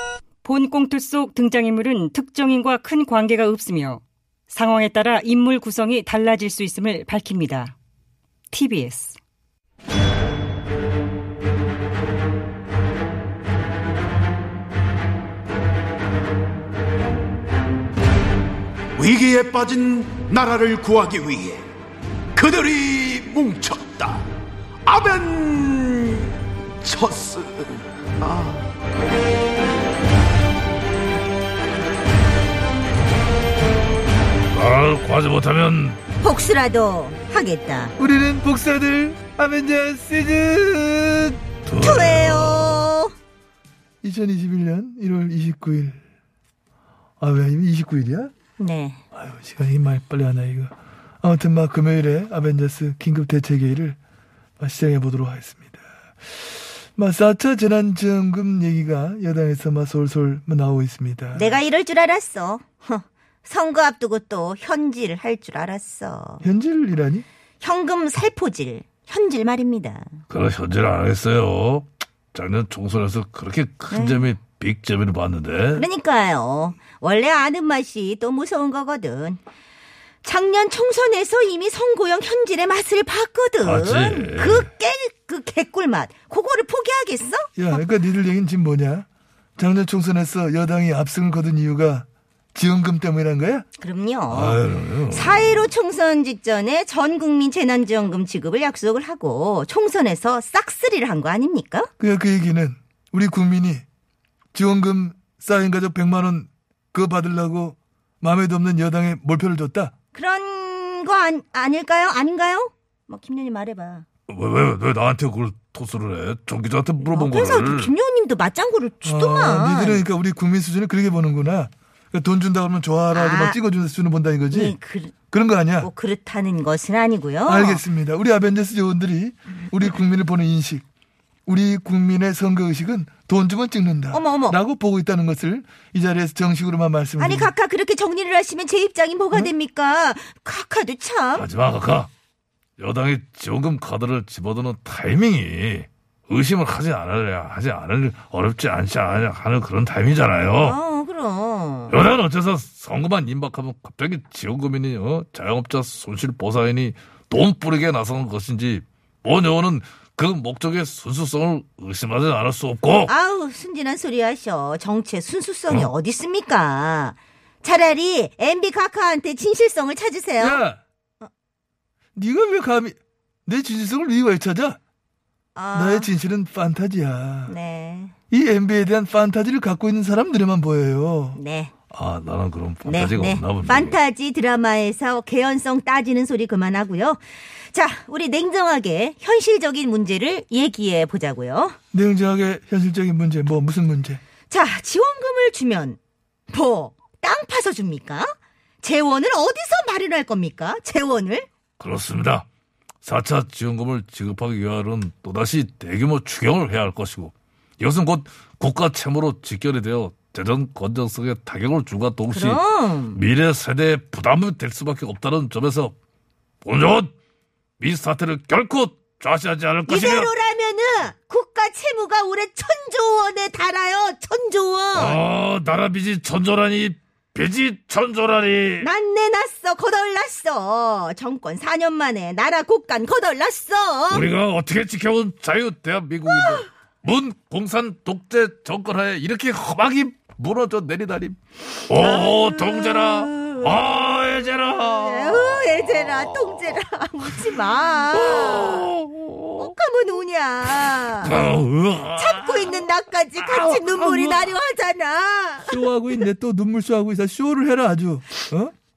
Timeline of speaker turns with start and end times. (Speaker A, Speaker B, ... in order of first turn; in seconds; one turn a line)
Speaker A: 0.4-7.8
Speaker A: 8.5-9.2
Speaker B: 19.0-21.6
Speaker B: 22.4-24.2
Speaker B: 24.9-26.2
Speaker B: 26.8-27.7
Speaker B: 28.3-28.6
Speaker C: 34.5-36.0
Speaker D: 36.2-38.0
Speaker E: 38.0-41.4
Speaker C: 41.7-42.9
Speaker D: 41.8-43.1
Speaker E: 44.0-46.0
Speaker E: 47.2-48.3
Speaker D: 48.6-49.0
Speaker E: 49.1-54.0
Speaker E: 54.6-55.8
Speaker E: 57.0-61.6
Speaker D: 61.3-66.5
Speaker E: 66.4-67.2
Speaker D: 67.6-70.2
Speaker C: 70.3-75.8
Speaker D: 73.9-74.3
Speaker D: 75.7-79.4
Speaker D: 80.2-87.8
Speaker C: 83.6-84.7
Speaker E: 87.6-89.1
Speaker E: 89.6-93.7
Speaker D: 93.8-101.9
Speaker C: 94.3-95.7
Speaker E: 102.0-103.8
Speaker E: 104.5-109.9
Speaker D: 110.1-114.0
Speaker C: 114.3-117.9
Speaker D: 117.0-120.0
Speaker E: 119.0-124.8
Speaker D: 123.1-123.6
Speaker D: 124.5-125.2
Speaker E: 125.3-125.9
Speaker D: 125.8-127.8
Speaker E: 127.5-130.8
Speaker E: 131.5-137.5
Speaker D: 134.1-134.6
Speaker D: 137.2-141.5
Speaker C: 141.3-142.1
Speaker C: 142.8-150.8
Speaker D: 150.6-152.0
Speaker C: 151.9-163.1
Speaker D: 163.1-170.6
Speaker E: 170.4-170.8
Speaker E: 172.2-172.9
Speaker E: 173.5-174.8
Speaker D: 175.6-176.1
Speaker E: 175.7-177.6
Speaker D: 177.5-178.1
Speaker E: 178.3-181.4
Speaker D: 181.4-181.7
Speaker C: 181.9-184.0
Speaker D: 182.8-191.8
Speaker E: 191.9-194.2
Speaker D: 194.5-201.5
Speaker C: 201.8-202.5
Speaker C: 203.0-215.9
Speaker D: 212.3-213.2
Speaker C: 216.6-217.1
Speaker C: 217.8-220.3
Speaker D: 219.9-225.2
Speaker C: 224.9-228.9
Speaker D: 228.8-234.3
Speaker C: 234.1-246.8
Speaker D: 236.3-236.6
Speaker D: 241.9-243.8
Speaker D: 244.8-248.9
Speaker C: 248.1-249.7
Speaker D: 249.6-251.4
Speaker C: 251.0-252.8
Speaker D: 252.1-255.8
Speaker C: 253.4-254.4
Speaker E: 255.7-258.7